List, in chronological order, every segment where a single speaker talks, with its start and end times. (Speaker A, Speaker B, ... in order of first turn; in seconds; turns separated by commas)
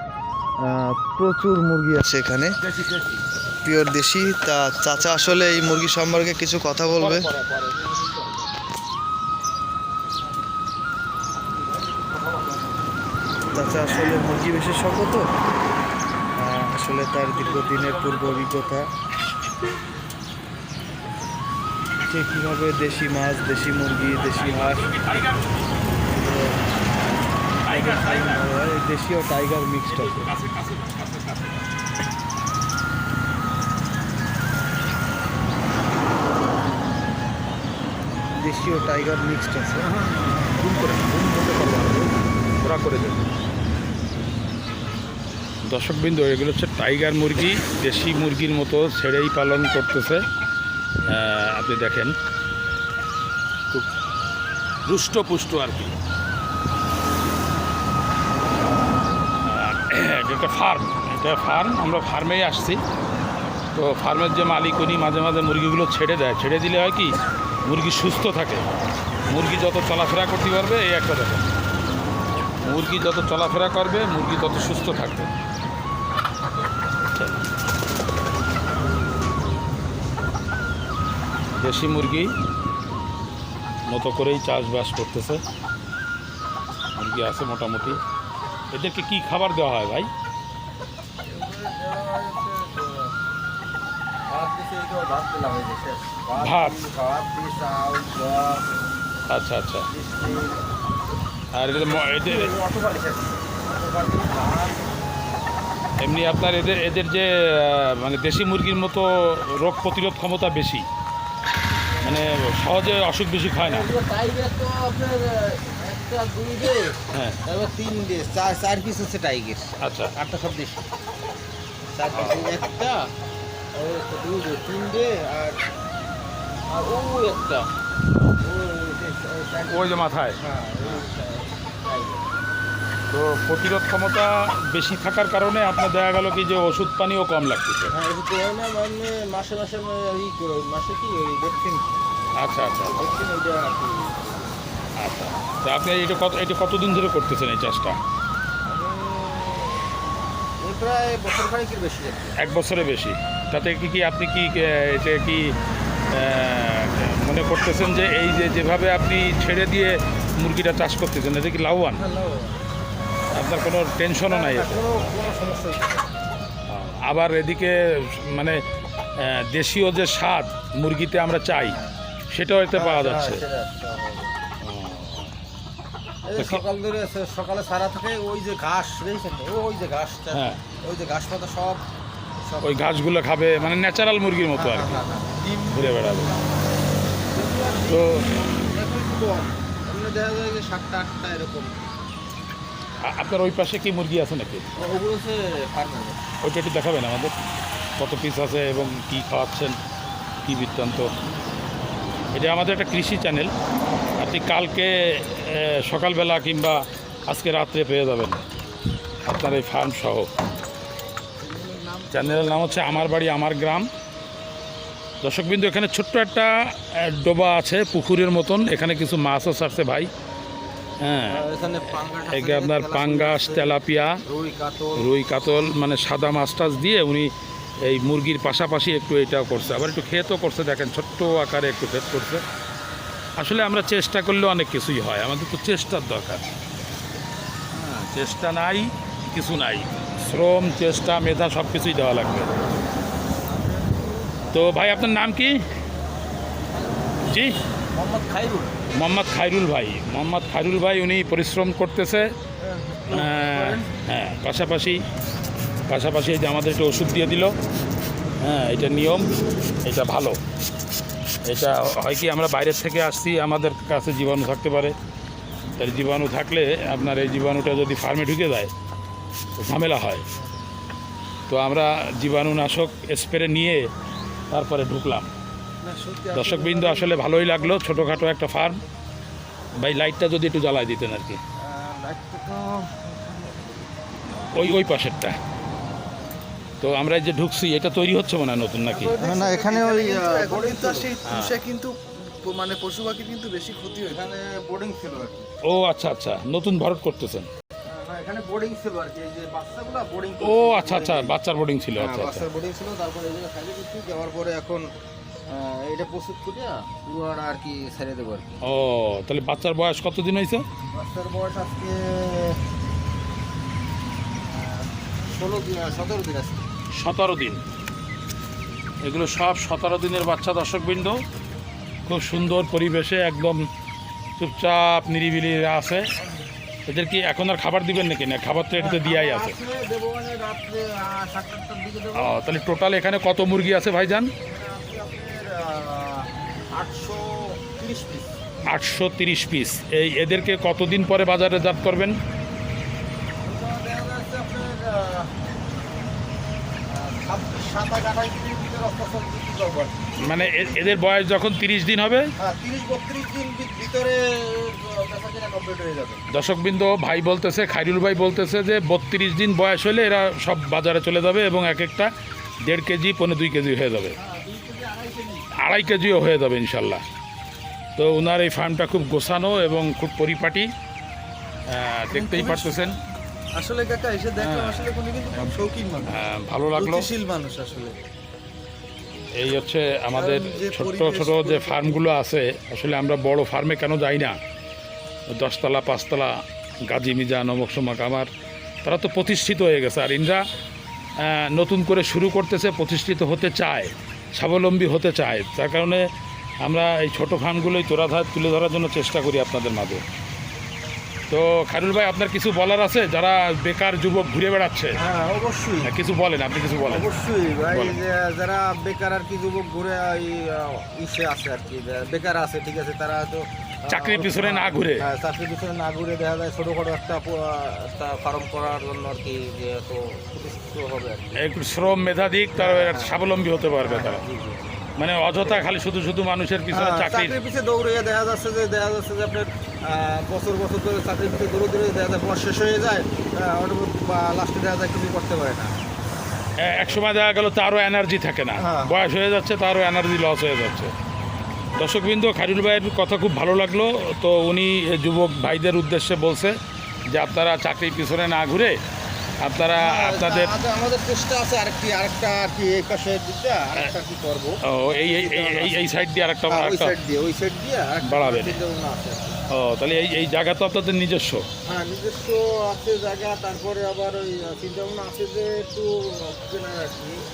Speaker A: 0.6-2.6, Speaker B: 2.7-3.2, Speaker A: 3.6-7.3, Speaker C: 7.1-8.1, Speaker A: 13.5-15.3, Speaker A: 16.4-18.9, Speaker B: 17.3-18.6, Speaker A: 22.1-24.9, Speaker B: 24.2-25.6, Speaker A: 26.1-26.6, Speaker A: 27.6-30.2, Speaker B: 27.6-28.5, Speaker B: 29.9-31.7, Speaker A: 38.4-39.9, Speaker B: 39.8-43.3, Speaker B: 45.6-50.2, Speaker B: 51.1-52.1, Speaker B: 54.9-56.0, Speaker B: 59.4-62.8, Speaker B: 63.8-68.7, Speaker B: 69.3-71.5, Speaker B: 72.6-75.3, Speaker B: 77.1-77.5, Speaker B: 81.6-82.3, Speaker B: 83.9-85.4, Speaker B: 87.0-88.0, Speaker B: 88.7-90.1, Speaker C: 91.2-93.1, Speaker C: 94.3-98.7, Speaker B: 96.4-96.8, Speaker B: 99.3-99.9, Speaker C: 99.9-100.6, Speaker B: 101.5-102.5, Speaker C: 102.0-104.8, Speaker B: 106.0-110.9, Speaker C: 112.0-112.3, Speaker B: 112.0-113.9, Speaker C: 113.6-120.9, Speaker B: 117.1-117.4, Speaker B: 119.8-120.1, Speaker C: 122.0-123.1, Speaker B: 122.1-122.5, Speaker C: 123.7-125.6, Speaker C: 126.7-127.7, Speaker C: 128.4-132.2, Speaker B: 129.7-131.0, Speaker B: 133.1-137.9, Speaker C: 137.9-141.9, Speaker B: 142.4-143.1, Speaker C: 142.8-144.6, Speaker B: 145.0-148.0, Speaker C: 148.7-149.9, Speaker C: 150.6-152.4, Speaker B: 152.4-155.6, Speaker B: 156.1-162.0, Speaker C: 162.0-162.6, Speaker B: 163.3-164.9, Speaker C: 164.3-166.1, Speaker B: 166.7-168.6, Speaker B: 169.2-171.8, Speaker C: 171.6-172.0, Speaker B: 172.3-173.4, Speaker C: 172.7-174.3, Speaker B: 174.6-175.3, Speaker C: 176.3-181.8, Speaker B: 176.4-176.6, Speaker B: 180.3-180.6, Speaker C: 182.4-183.0, Speaker B: 182.6-185.1, Speaker C: 183.5-183.8, Speaker C: 184.5-185.5, Speaker A: 185.5-186.0, Speaker B: 185.7-186.3, Speaker C: 187.3-191.7, Speaker B: 187.9-188.3, Speaker B: 193.0-194.7, Speaker C: 194.8-196.2, Speaker B: 196.4-197.3, Speaker B: 198.0-199.8, Speaker B: 200.4-201.1, Speaker B: 202.3-203.5, Speaker B: 204.2-208.4, Speaker B: 209.2-210.3, Speaker C: 211.4-213.3, Speaker B: 212.1-213.9, Speaker B: 215.2-220.1, Speaker B: 221.0-221.4, Speaker C: 221.2-225.1, Speaker B: 222.3-224.2, Speaker B: 225.0-227.3, Speaker B: 227.8-232.4, Speaker B: 233.4-236.4, Speaker B: 237.8-242.6, Speaker C: 243.4-244.5, Speaker B: 244.5-245.6, Speaker C: 246.4-247.2, Speaker B: 247.3-247.6, Speaker C: 247.9-248.8, Speaker B: 249.0-252.3, Speaker C: 252.7-253.9, Speaker B: 253.1-255.0, Speaker B: 255.9-257.5, Speaker B: 258.4-259.3, Speaker B: 259.9-260.4, Speaker B: 261.5-264.9, Speaker B: 265.8-268.7, Speaker B: 269.6-270.2, Speaker B: 271.5-273.9, Speaker B: 274.5-275.3, Speaker A: 275.8-277.5, Speaker B: 276.3-278.8, Speaker B: 279.8-281.4, Speaker C: 281.6-283.8, Speaker B: 284.5-285.4, Speaker B: 286.8-289.2, Speaker A: 289.0-294.2, Speaker C: 289.1-291.1, Speaker B: 291.2-291.6, Speaker C: 294.1-295.5, Speaker B: 295.7-297.5, Speaker C: 297.9-301.4, Speaker B: 300.4-302.4, Speaker C: 302.0-304.9, Speaker C: 305.5-308.6, Speaker B: 308.7-310.6, Speaker C: 310.9-312.6, Speaker C: 314.4-316.6, Speaker B: 316.9-317.6, Speaker B: 319.1-321.2, Speaker B: 322.1-323.6, Speaker B: 324.4-326.1, Speaker B: 326.9-329.6, Speaker C: 328.8-332.4, Speaker B: 332.2-334.3, Speaker C: 334.5-338.4, Speaker B: 338.7-342.2, Speaker C: 343.4-345.3, Speaker C: 346.9-351.1, Speaker B: 350.2-352.3, Speaker C: 352.4-356.2, Speaker B: 356.3-362.1, Speaker B: 362.7-364.2, Speaker C: 364.1-365.5, Speaker B: 365.6-367.0, Speaker B: 368.0-370.7, Speaker B: 371.7-373.0, Speaker A: 372.1-372.8, Speaker A: 373.6-378.0, Speaker B: 374.4-374.9, Speaker B: 375.4-377.1, Speaker B: 379.4-384.4, Speaker A: 380.1-382.0, Speaker B: 385.3-386.3, Speaker B: 386.9-388.3, Speaker B: 388.8-390.4, Speaker B: 391.2-396.1, Speaker B: 396.6-400.0, Speaker B: 401.3-405.0, Speaker C: 404.9-405.9, Speaker B: 405.8-407.1, Speaker C: 406.9-421.4, Speaker B: 407.7-408.0, Speaker B: 413.9-415.1, Speaker B: 421.4-424.2, Speaker C: 422.5-423.2, Speaker C: 423.8-424.7, Speaker B: 425.0-427.4, Speaker C: 425.3-425.6, Speaker C: 426.7-435.7, Speaker B: 436.6-440.9, Speaker C: 438.6-439.1, Speaker B: 441.8-446.6, Speaker B: 447.1-448.8, Speaker B: 449.4-450.5, Speaker C: 449.7-455.9, Speaker B: 454.7-456.9, Speaker C: 456.5-459.4, Speaker B: 458.1-458.6, Speaker B: 459.5-461.5, Speaker C: 461.6-467.2